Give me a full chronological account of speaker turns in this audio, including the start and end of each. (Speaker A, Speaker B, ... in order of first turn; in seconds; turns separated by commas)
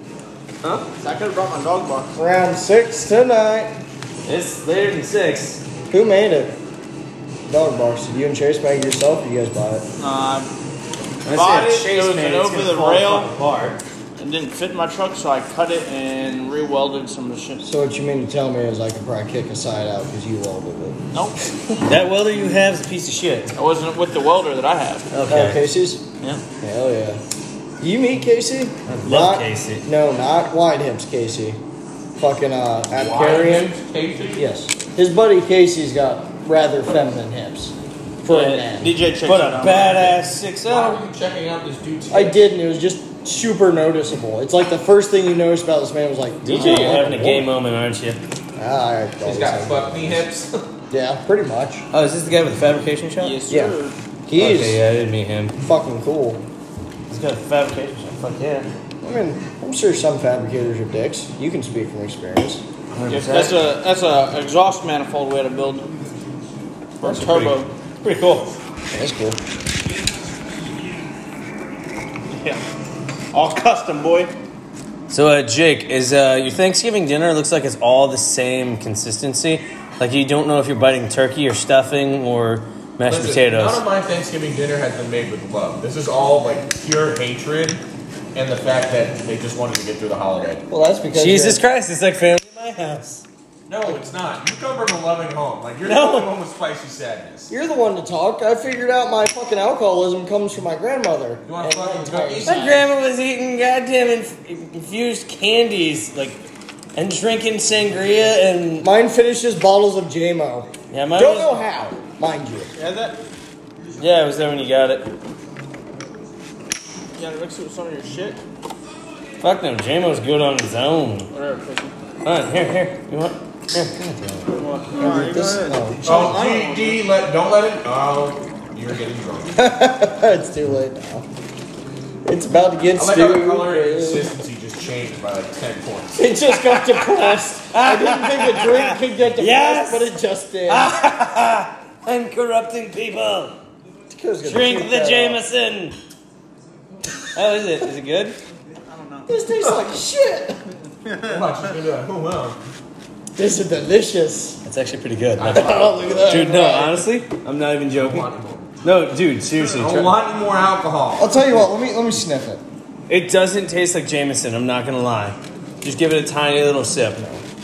Speaker A: 1.0-2.1, Speaker B: 2.1-3.7, Speaker C: 4.2-5.6, Speaker B: 5.9-6.5, Speaker B: 7.5-9.8, Speaker A: 10.0-10.5, Speaker C: 11.2-13.8, Speaker A: 11.3-13.3, Speaker A: 14.2-17.6, Speaker B: 17.6-21.0, Speaker A: 21.1-21.5, Speaker C: 21.9-23.5, Speaker A: 23.5-25.1, Speaker C: 25.1-25.6, Speaker B: 25.3-26.0, Speaker B: 26.6-27.2, Speaker B: 27.8-31.6, Speaker C: 28.9-29.8, Speaker B: 32.2-33.7, Speaker D: 32.9-34.4, Speaker B: 34.3-38.9, Speaker C: 38.3-38.7, Speaker A: 38.7-40.1, Speaker C: 39.2-41.0, Speaker D: 40.6-42.4, Speaker B: 42.1-47.5, Speaker C: 46.4-48.2, Speaker A: 46.5-47.0, Speaker B: 48.6-50.3, Speaker D: 49.2-50.6, Speaker B: 50.9-51.8, Speaker C: 51.9-53.4, Speaker A: 53.2-54.0, Speaker B: 53.5-53.7, Speaker B: 54.3-54.8, Speaker C: 54.3-55.5, Speaker B: 55.6-56.4, Speaker C: 57.1-58.7, Speaker B: 59.0-62.6, Speaker C: 63.0-63.5, Speaker A: 63.1-65.9, Speaker A: 67.0-67.7, Speaker C: 67.0-68.5, Speaker B: 68.9-69.4, Speaker A: 72.3-72.6, Speaker A: 73.3-74.3, Speaker C: 75.1-83.8, Speaker D: 83.0-87.8, Speaker D: 88.3-90.6, Speaker B: 90.7-91.6, Speaker C: 91.1-93.2, Speaker D: 93.7-97.5, Speaker C: 95.8-96.3, Speaker B: 97.5-102.7, Speaker D: 101.4-102.7, Speaker C: 102.4-106.4, Speaker A: 102.5-102.8, Speaker C: 106.9-108.9, Speaker B: 108.8-112.7, Speaker C: 110.9-111.6, Speaker A: 112.7-113.2, Speaker C: 114.0-115.1, Speaker A: 117.2-118.4, Speaker C: 119.4-121.3, Speaker A: 121.3-121.9, Speaker C: 122.2-124.5, Speaker A: 124.5-127.1, Speaker B: 124.9-126.5, Speaker D: 126.0-129.5, Speaker B: 129.6-131.3, Speaker B: 132.2-134.3, Speaker D: 132.9-136.3, Speaker B: 136.2-141.0, Speaker C: 136.7-140.1, Speaker C: 140.7-143.6, Speaker B: 144.1-145.4, Speaker C: 144.4-146.0, Speaker C: 147.3-148.4, Speaker A: 148.8-149.4, Speaker B: 149.3-150.6, Speaker A: 151.0-151.7, Speaker D: 151.3-152.6, Speaker B: 153.3-154.6, Speaker C: 154.6-158.2, Speaker D: 155.4-156.3, Speaker B: 155.5-157.1, Speaker D: 157.9-158.7, Speaker C: 158.8-160.1, Speaker D: 159.8-161.3, Speaker B: 161.2-162.6, Speaker C: 163.1-167.4